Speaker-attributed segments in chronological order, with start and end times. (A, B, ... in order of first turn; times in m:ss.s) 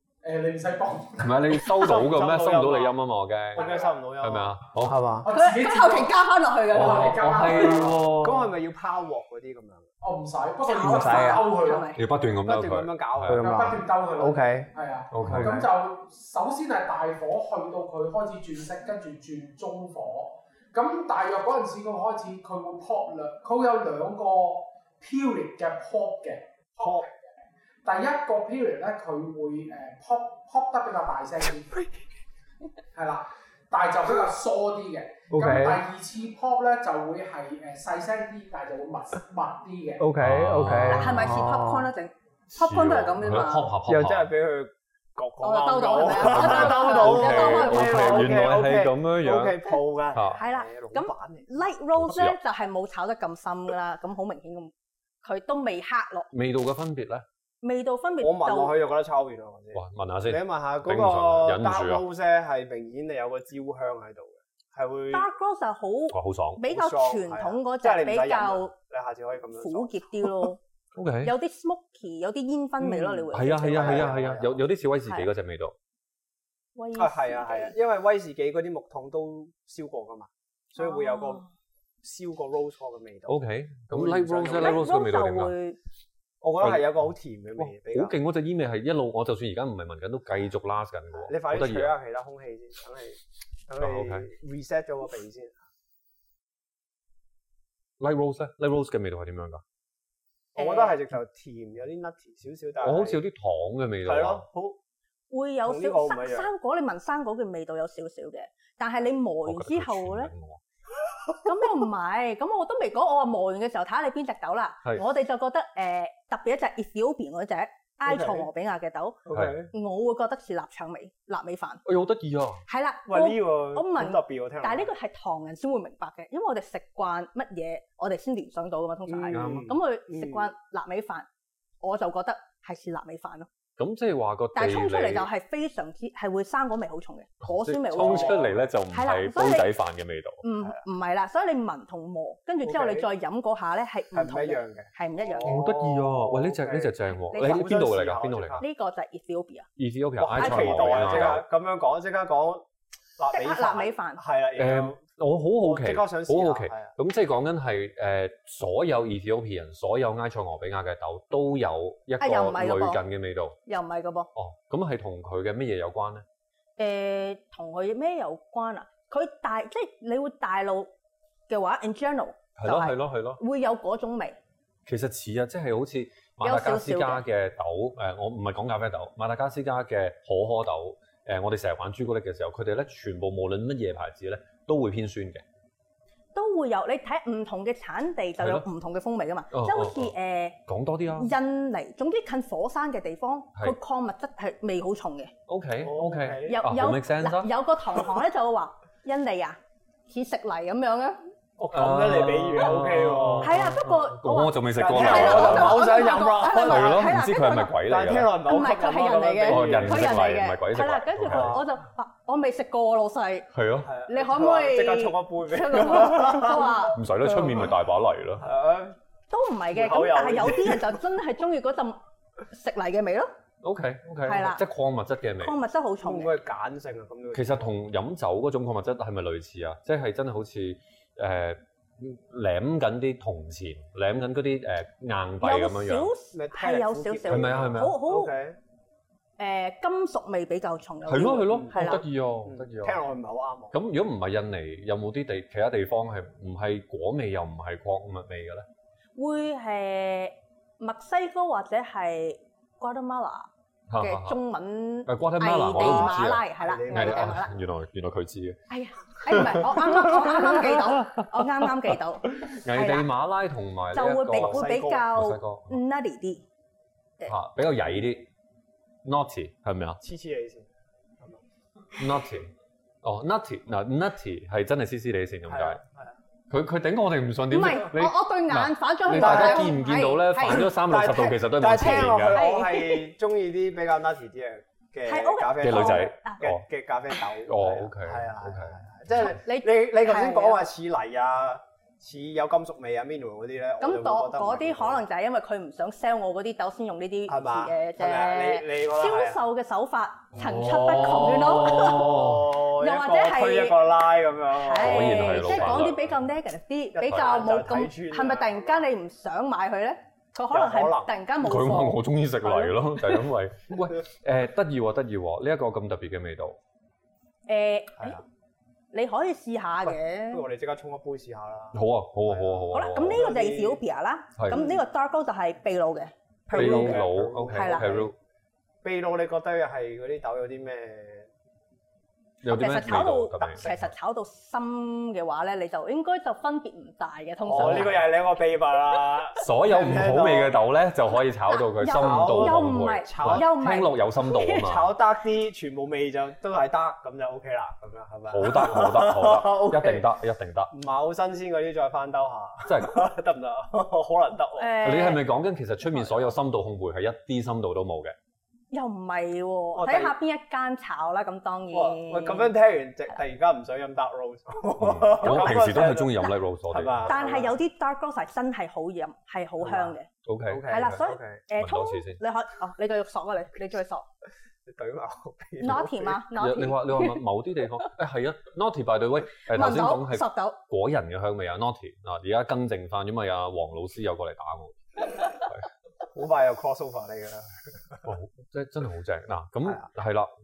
0:00.2-0:01.7 A
0:01.2-0:03.7 B
0:01.7-0:03.0 C
0:03.5-0:05.3 C
0:03.6-0:03.9 A
0:04.2-0:05.0 B
0:05.2-0:08.1 A
0:05.3-0:07.2 D
0:06.7-0:08.5 B
0:07.4-0:09.9 C
0:10.0-0:11.9 A
0:10.6-0:12.0 D
0:10.8-0:11.4 C
0:12.0-0:13.5 B
0:12.4-0:14.7 C
0:13.3-0:31.8 A
0:15.1-0:15.7 B
0:15.2-0:15.5 C
0:26.8-0:27.1 C
0:32.9-0:40.1 A
0:35.3-0:35.8 C
0:40.0-0:41.9 C
0:40.2-0:41.5 B
0:40.9-0:43.7 D
0:42.6-0:44.3 B
0:43.9-0:51.6 C
0:45.4-0:48.3 D
0:46.1-0:50.4 B
0:50.4-0:54.7 D
0:52.0-0:52.4 B
0:55.2-0:56.3 D
0:56.3-0:57.2 B
0:57.6-0:58.8 D
0:58.2-1:05.3 C
0:59.7-1:02.0 B
1:05.1-1:08.7 D
1:06.1-1:06.6 B
1:06.6-1:10.3 C
1:09.6-1:10.6 D
1:10.9-1:11.3 B
1:11.2-1:14.1 D
1:12.8-1:14.6 C
1:13.3-1:15.7 B
1:16.8-1:17.7 D
1:16.9-1:21.4 C
1:20.8-1:21.5 D
1:22.0-1:23.4 C
1:23.3-1:25.5 B
1:23.9-1:24.9 C
1:24.5-1:25.8 D
1:26.4-1:28.1 C
1:26.6-1:26.9 B
1:27.6-1:31.9 B
1:31.2-1:35.6 C
1:33.8-1:34.3 B
1:38.0-1:39.6 B
1:40.6-1:43.2 C
1:40.6-1:40.9 D
1:42.8-1:44.4 B
1:44.0-1:44.8 C
1:45.3-1:50.3 D
1:45.6-1:46.5 C
1:49.4-1:50.6 B
1:51.4-2:01.8 D
1:58.0-1:58.5 C
1:59.2-1:59.7 C
1:59.3-1:59.7 B
2:01.8-2:02.6 B
2:02.7-2:11.3 D
2:03.1-2:04.9 C
2:09.0-2:10.5 C
2:09.3-2:09.7 B
2:11.8-2:13.5 D
2:13.8-2:15.3 B
2:14.5-2:19.7 D
2:17.4-2:20.4 B
2:17.9-2:18.6 C
2:20.4-2:25.6 D
2:22.6-2:23.1 C
2:24.1-2:28.6 C
2:25.4-2:28.6 B
2:27.3-2:27.8 D
2:28.6-2:29.7 D
2:29.8-2:31.4 B
2:30.2-2:32.6 C
2:30.4-2:31.4 D
2:33.2-2:35.0 C
2:33.3-2:34.2 D
2:34.6-2:43.6 B
2:35.6-2:36.9 C
2:42.2-2:43.0 D
2:43.6-2:44.3 D
2:44.4-2:46.2 B
2:46.8-2:50.9 D
2:51.5-2:54.4 D
2:52.6-2:53.4 B
2:54.9-3:05.4 B
2:56.4-2:57.2 D
3:06.4-3:10.6 D
3:08.4-3:08.6 B
3:09.5-3:10.1 B
3:10.7-3:11.3 B
3:11.1-3:15.3 D
3:15.5-3:17.5 B
3:15.8-3:16.6 C
3:16.5-3:21.2 D
3:21.6-3:23.8 C
3:21.7-3:28.4 B
3:23.4-3:27.8 D
3:24.7-3:27.1 C
3:27.8-3:30.1 C
3:28.4-3:33.5 D
3:29.4-3:31.6 B
3:31.2-3:31.6 C
3:33.5-3:33.9 B
3:33.8-3:37.7 C
3:34.1-3:37.0 D
3:36.9-3:38.5 B
3:38.4-3:39.0 C
3:39.3-3:43.3 D
3:39.7-3:41.0 C
3:43.6-3:45.5 B
3:44.2-3:44.6 D
3:45.4-3:46.3 D
3:46.0-3:47.7 C
3:47.3-3:56.1 B
3:55.4-3:58.3 D
3:56.3-3:58.6 C
3:57.3-3:58.0 B
3:59.4-4:02.0 D
4:01.1-4:03.0 B
4:01.5-4:03.7 C
4:03.7-4:08.7 B
4:09.2-4:17.5 D
4:13.9-4:14.4 B
4:15.0-4:18.6 B
4:15.8-4:17.5 C
4:18.7-4:23.1 D
4:19.3-4:21.4 B
4:22.4-4:25.8 B
4:23.9-4:26.4 D
4:24.3-4:25.1 C
4:27.3-4:28.3 B
4:29.0-4:30.0 B
4:30.0-4:30.7 C
4:32.0-4:32.5 B
4:33.0-4:35.8 B
4:35.5-4:36.2 C
4:36.5-4:42.4 B
4:37.5-4:40.7 D
4:39.1-4:39.8 C
4:40.5-4:55.0 C
4:41.7-4:43.1 D
4:45.0-4:46.4 D
4:45.6-4:46.6 B
4:47.5-4:48.8 B
4:49.2-4:50.7 D
4:53.8-5:03.8 D
4:57.3-4:59.4 C
5:00.4-5:02.5 B
5:01.4-5:06.0 C
5:04.6-5:13.2 D
5:04.8-5:06.1 B
5:06.9-5:08.9 C
5:10.5-5:11.1 C
5:11.4-5:16.6 B
5:17.5-5:18.2 D
5:18.9-5:20.4 D
5:19.8-5:23.8 C
5:21.7-5:23.2 B
5:22.7-5:28.0 D
5:24.5-5:24.8 C
5:26.5-5:28.1 C
5:26.5-5:28.1 B
5:28.8-5:31.3 C
5:32.4-5:33.8 B
5:32.5-5:38.0 D
5:37.4-5:40.6 C
5:37.5-5:38.0 B
5:39.4-5:44.9 B
5:41.5-5:44.6 D
5:41.8-5:43.5 C
5:44.5-5:50.1 C
5:48.3-5:50.7 B
5:50.7-5:54.8 C
5:52.6-5:53.0 B
5:54.6-5:55.2 D
5:54.8-5:58.1 B
5:58.7-6:02.5 D
5:59.8-6:00.2 C
6:01.7-6:07.6 C
6:04.8-6:07.1 B
6:05.2-6:05.5 D
6:07.1-6:10.1 D
6:09.6-6:10.0 C
6:10.2-6:11.0 B
6:10.5-6:11.4 C
6:10.7-6:14.0 D
6:11.6-6:12.2 B
6:14.6-6:16.2 C
6:15.6-6:17.2 D
6:16.4-6:24.8 B
6:19.5-6:20.6 D
6:25.3-6:25.6 B
6:26.1-6:28.0 C
6:28.0-6:30.3 B